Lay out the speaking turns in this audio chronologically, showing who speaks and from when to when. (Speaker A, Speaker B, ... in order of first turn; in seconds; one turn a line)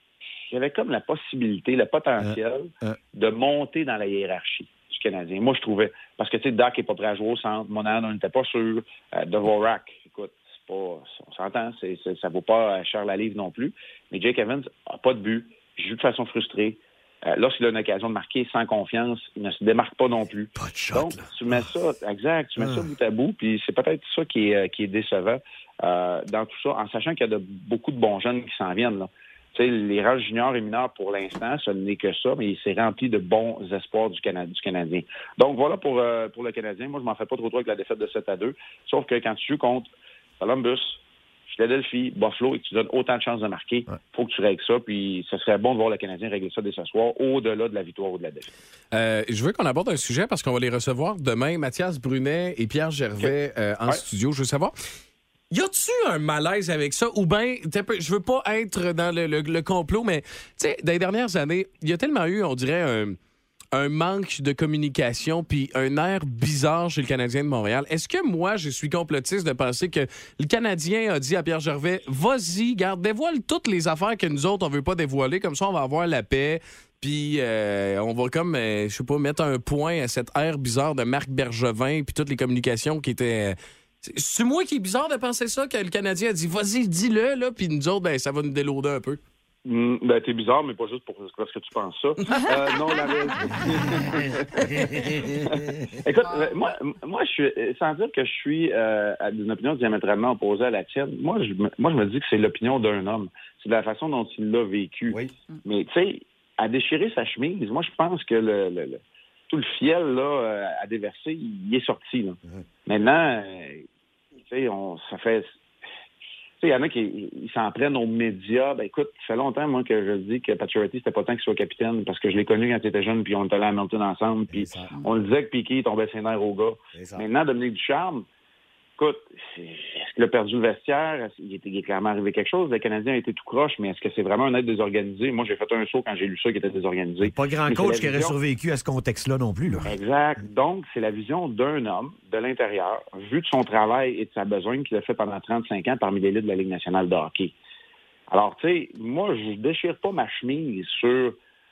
Speaker A: 0.5-48.5
Speaker B: 2.2-3.0
Speaker B: 20.6-21.7
Speaker B: 22.6-22.9
Speaker C: 48.9-54.7
Speaker A: 53.2-54.0
Speaker C: 55.5-63.2
Speaker C: 63.7-89.2
Speaker A: 89.6-113.8
Speaker B: 94.0-95.6
Speaker A: 114.4-115.5
Speaker A: 116.6-128.2
Speaker B: 124.5-124.9
Speaker B: 126.9-127.3
Speaker A: 129.0-138.4
Speaker B: 137.2-139.9
Speaker A: 139.8-147.5
Speaker A: 148.3-151.4